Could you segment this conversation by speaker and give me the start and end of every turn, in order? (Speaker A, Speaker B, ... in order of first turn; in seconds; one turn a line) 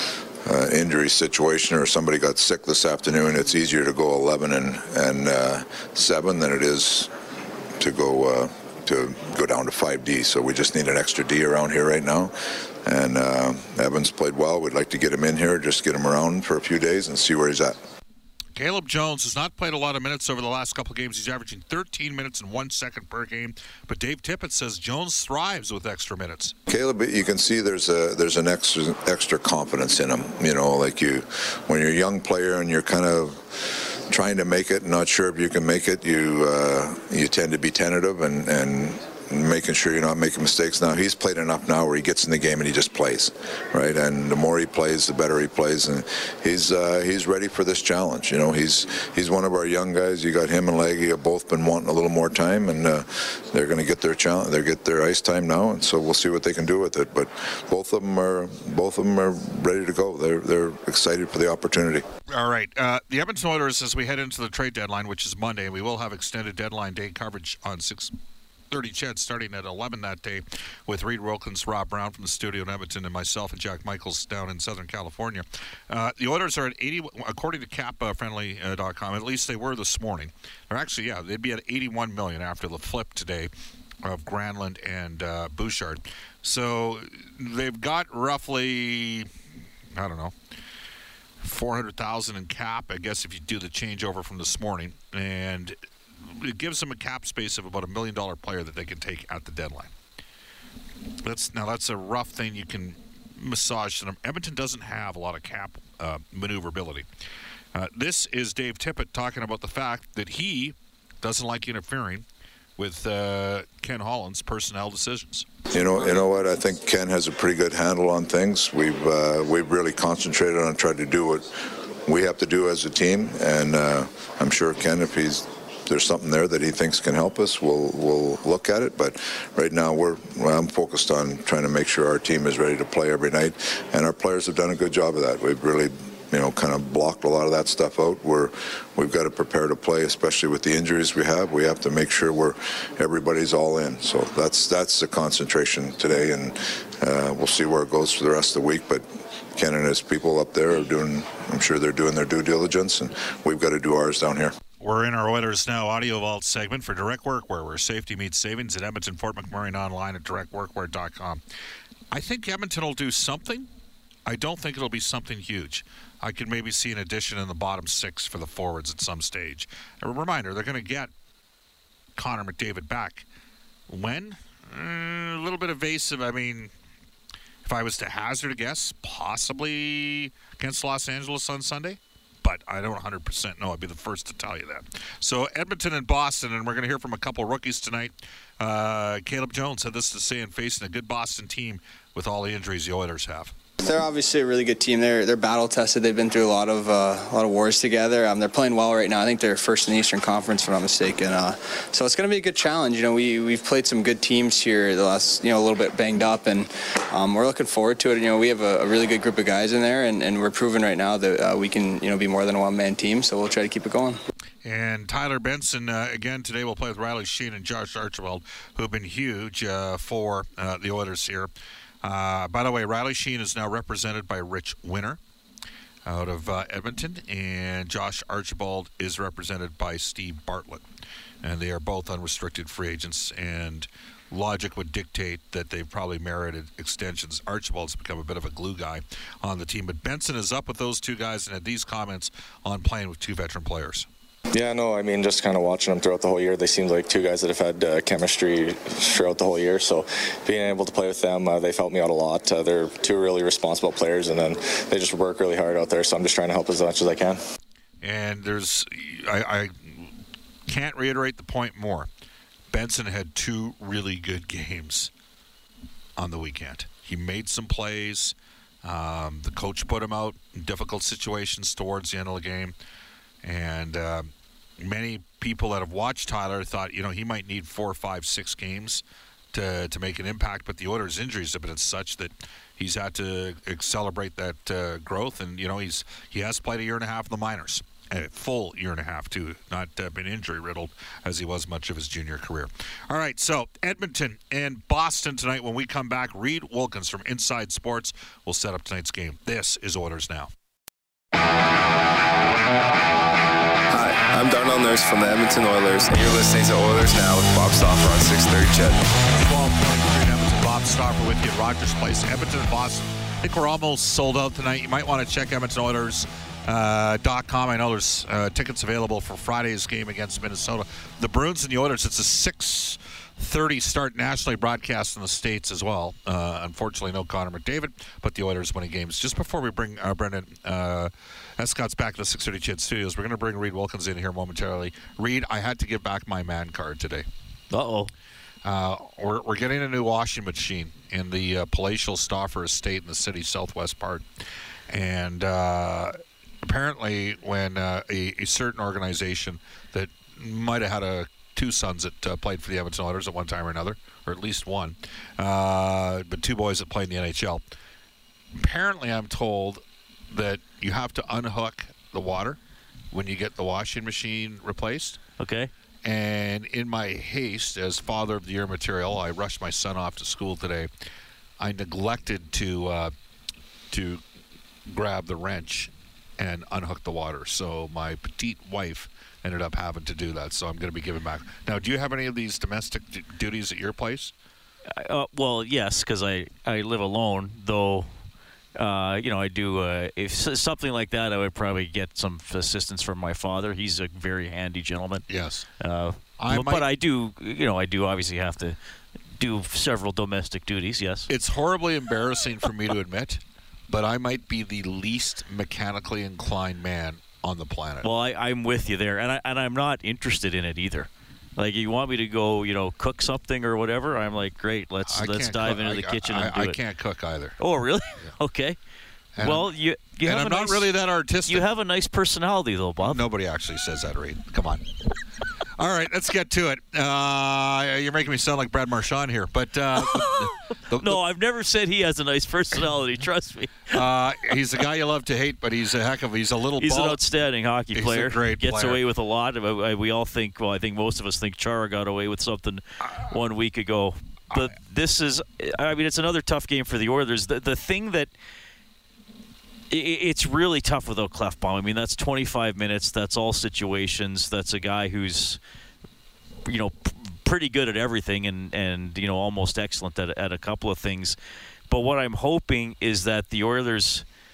Speaker A: 0.4-7.1
Speaker A: 7.8-17.8
Speaker B: 18.5-26.6
Speaker A: 26.7-62.1
Speaker B: 62.3-68.2
Speaker B: 68.7-83.5
Speaker B: 84.0-89.3
Speaker B: 90.0-90.3
Speaker B: 91.4-99.9
Speaker B: 101.2-107.1
Speaker B: 107.7-112.2
Speaker B: 112.8-115.5
Speaker A: 115.7-154.6
Speaker B: 154.8-161.4
Speaker B: 162.1-163.7
Speaker B: 164.3-171.1
Speaker B: 172.2-173.3
Speaker B: 173.9-176.7
Speaker B: 177.7-193.5
Speaker C: 193.8-214.2
Speaker B: 214.6-221.5
Speaker B: 222.0-225.2
Speaker B: 226.1-230.8
Speaker B: 231.4-244.1
Speaker D: 244.5-257.4
Speaker B: 258.0-260.1
Speaker B: 260.7-262.1
Speaker B: 262.7-265.1
Speaker B: 266.2-272.8
Speaker B: 273.4-300.5
Speaker E: 303.9-309.0
Speaker B: 309.3-337.3
Speaker F: 337.7-338.1
Speaker B: 338.6-344.2
Speaker B: 344.9-357.6
Speaker B: 358.6-362.6
Speaker B: 363.1-365.2
Speaker F: 365.4-365.7
Speaker B: 366.1-370.9
Speaker B: 371.6-373.1
Speaker B: 373.9-374.2
Speaker B: 374.9-384.3
Speaker F: 384.9-388.1
Speaker F: 388.8-395.3
Speaker B: 395.3-395.7
Speaker F: 395.8-398.8
Speaker B: 396.4-396.9
Speaker F: 399.4-401.3
Speaker B: 401.3-408.1
Speaker F: 408.0-416.8
Speaker B: 415.1-417.6
Speaker F: 417.6-418.8
Speaker B: 419.4-419.7
Speaker F: 419.4-420.9
Speaker B: 420.2-421.7
Speaker F: 421.5-423.2
Speaker B: 423.0-424.9
Speaker B: 425.8-431.2
Speaker F: 430.2-434.0
Speaker B: 433.9-437.2
Speaker F: 436.8-448.3
Speaker B: 437.9-439.0
Speaker F: 449.9-455.6
Speaker F: 456.7-461.4
Speaker F: 461.9-464.2